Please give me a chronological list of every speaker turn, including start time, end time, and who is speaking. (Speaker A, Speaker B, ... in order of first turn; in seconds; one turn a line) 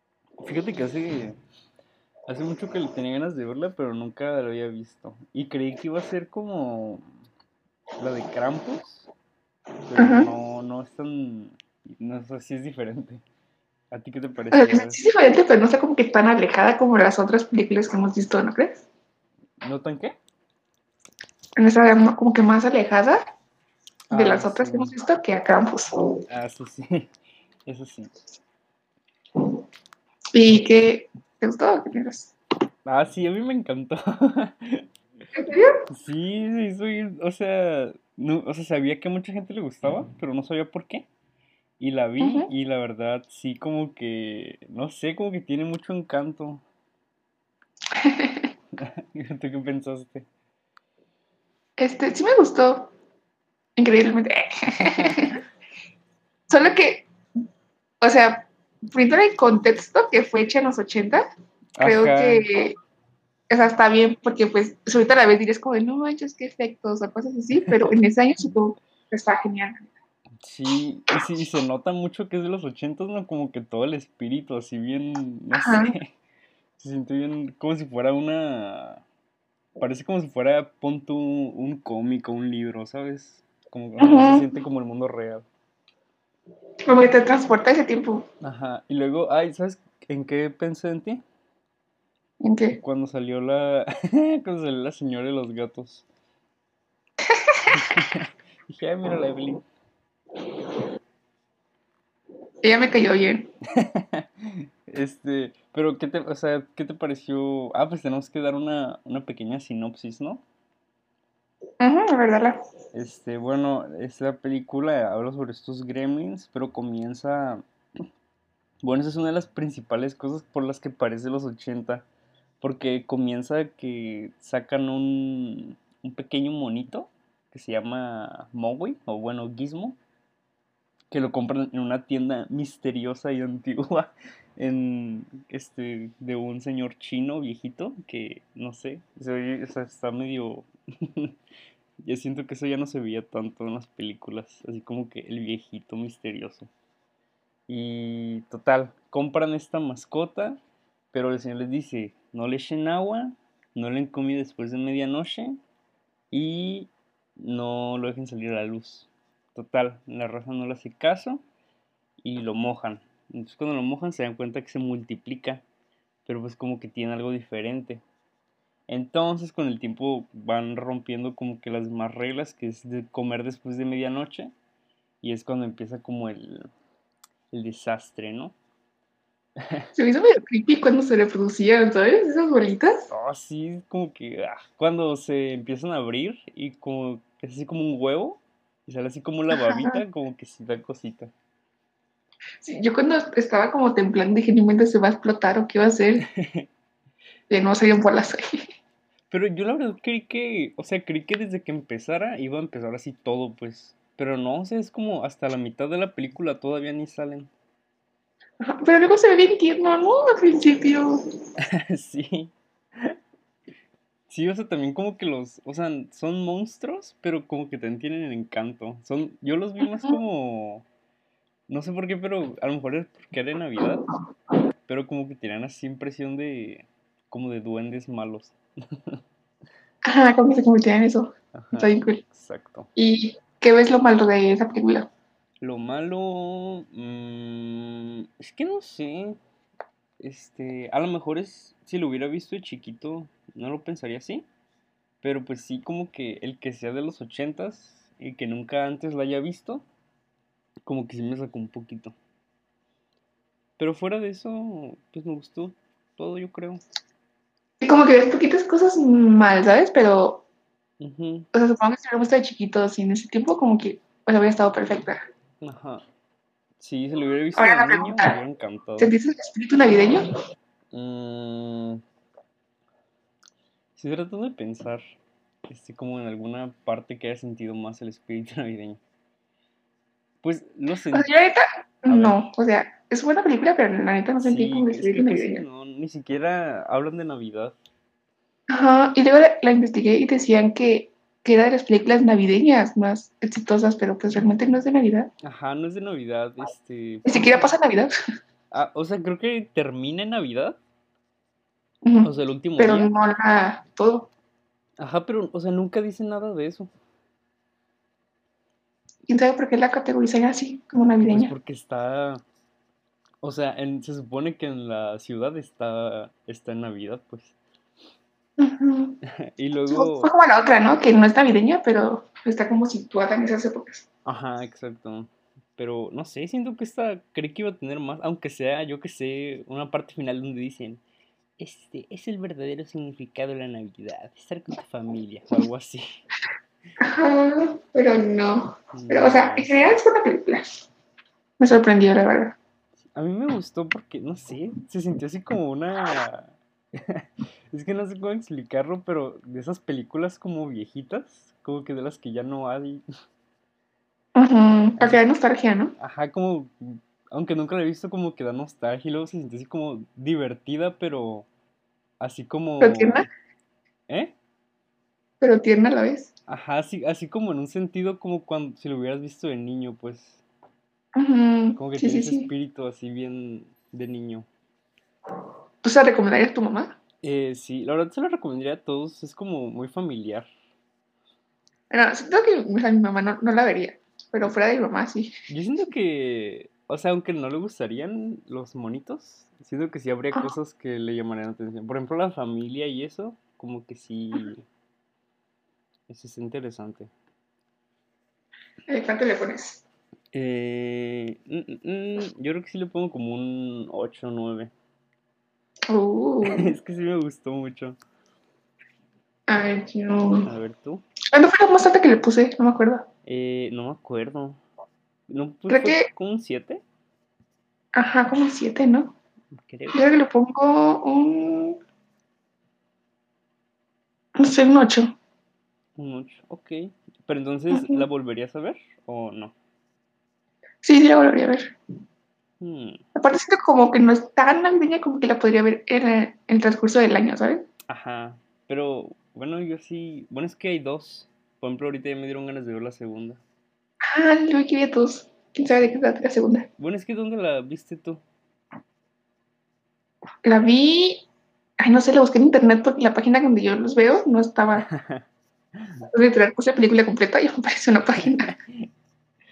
Speaker A: 0.4-1.4
Speaker A: 2.3-7.0
Speaker A: 8.0-9.1
Speaker A: 9.8-13.2
Speaker B: 10.0-10.3
Speaker A: 13.9-15.0
Speaker B: 14.5-18.8
Speaker A: 19.6-20.1
Speaker B: 21.6-23.2
Speaker A: 24.1-24.9
Speaker B: 24.1-25.9
Speaker A: 26.3-27.1
Speaker A: 27.7-28.1
Speaker B: 30.3-32.3
Speaker A: 32.9-34.9
Speaker B: 35.4-35.7
Speaker A: 35.9-41.1
Speaker A: 41.8-46.6
Speaker B: 42.2-42.5
Speaker B: 48.0-48.4
Speaker A: 48.8-50.3
Speaker B: 51.8-52.9
Speaker B: 53.8-55.4
Speaker A: 54.9-55.2
Speaker B: 56.5-57.1
Speaker B: 58.0-61.2
Speaker A: 61.8-62.5
Speaker B: 61.8-62.8
Speaker B: 63.5-69.9
Speaker A: 67.6-67.9
Speaker A: 70.4-76.1
Speaker B: 75.5-75.9
Speaker A: 76.8-79.0
Speaker A: 79.8-85.5
Speaker B: 84.0-84.5
Speaker B: 86.9-88.2
Speaker A: 88.4-91.2
Speaker B: 92.4-92.8
Speaker A: 92.8-96.0
Speaker A: 97.7-99.6
Speaker B: 102.6-103.5
Speaker A: 103.8-110.4
Speaker B: 111.8-112.5
Speaker A: 112.9-117.6
Speaker A: 118.8-122.0
Speaker A: 122.6-130.0
Speaker A: 131.1-141.3
Speaker A: 142.0-146.7
Speaker A: 147.7-150.6
Speaker A: 151.1-155.6
Speaker A: 156.3-161.4
Speaker A: 162.2-165.6
Speaker A: 166.2-168.0
Speaker A: 168.9-174.5
Speaker A: 175.2-176.7
Speaker A: 177.5-178.5
Speaker A: 179.6-179.9
Speaker B: 179.9-183.1
Speaker A: 183.1-191.3
Speaker B: 189.5-190.0
Speaker B: 192.6-196.2
Speaker A: 196.3-196.7
Speaker B: 197.5-198.4
Speaker A: 199.3-207.5
Speaker B: 208.6-211.2
Speaker A: 211.8-213.2
Speaker A: 214.3-220.8
Speaker A: 221.7-224.0
Speaker A: 224.9-229.2
Speaker B: 230.1-232.2
Speaker A: 231.5-232.9
Speaker B: 232.9-235.1
Speaker A: 235.6-239.4
Speaker A: 240.2-244.4
Speaker A: 245.2-249.8
Speaker A: 250.8-252.1
Speaker A: 253.8-256.8
Speaker B: 257.8-260.4
Speaker A: 261.0-261.5
Speaker B: 261.5-265.2
Speaker A: 265.6-266.0
Speaker A: 266.8-269.1
Speaker B: 267.6-268.3
Speaker B: 269.0-270.2
Speaker A: 270.9-272.0
Speaker A: 273.9-275.0
Speaker A: 275.7-279.0
Speaker A: 280.4-281.3
Speaker B: 281.1-285.6
Speaker A: 282.1-282.4
Speaker A: 284.4-287.8
Speaker B: 288.7-295.3
Speaker A: 295.4-297.7
Speaker B: 297.2-298.1
Speaker A: 298.7-300.8
Speaker B: 302.0-304.3
Speaker A: 302.2-303.1
Speaker A: 305.0-306.9
Speaker B: 309.3-311.5
Speaker A: 311.2-312.4
Speaker A: 313.4-317.6
Speaker B: 318.6-319.2
Speaker A: 319.2-320.3
Speaker B: 319.9-324.0
Speaker A: 324.2-331.0
Speaker A: 331.6-336.2
Speaker B: 337.0-340.7
Speaker A: 338.9-340.0
Speaker B: 341.6-342.6
Speaker A: 343.1-353.0
Speaker B: 354.3-355.9
Speaker A: 355.0-355.2
Speaker A: 356.0-361.5
Speaker A: 362.2-363.3
Speaker B: 362.8-363.2
Speaker A: 364.1-364.3
Speaker B: 365.4-366.3
Speaker A: 366.5-370.4
Speaker B: 371.1-372.5
Speaker A: 371.8-374.5
Speaker B: 375.8-376.9
Speaker A: 377.2-380.5
Speaker B: 381.9-385.3
Speaker A: 385.5-394.6
Speaker A: 396.1-397.1
Speaker B: 398.9-399.8
Speaker A: 400.3-404.7
Speaker B: 405.9-406.7
Speaker A: 406.4-408.0
Speaker B: 409.5-410.5
Speaker A: 410.4-411.0
Speaker B: 411.3-413.1
Speaker A: 413.2-414.6
Speaker A: 415.3-416.8
Speaker B: 415.7-416.1
Speaker B: 417.9-419.1
Speaker A: 419.5-420.0
Speaker B: 419.9-421.8
Speaker B: 424.4-425.1
Speaker A: 426.0-429.5
Speaker B: 427.7-428.0
Speaker B: 430.8-431.7
Speaker A: 432.6-433.0
Speaker B: 433.1-437.6
Speaker A: 437.9-443.4
Speaker B: 444.1-446.7
Speaker A: 446.8-448.2
Speaker B: 450.4-451.2
Speaker B: 451.8-454.9
Speaker A: 454.9-455.2
Speaker A: 455.8-456.1
Speaker B: 456.1-458.5
Speaker A: 458.2-458.9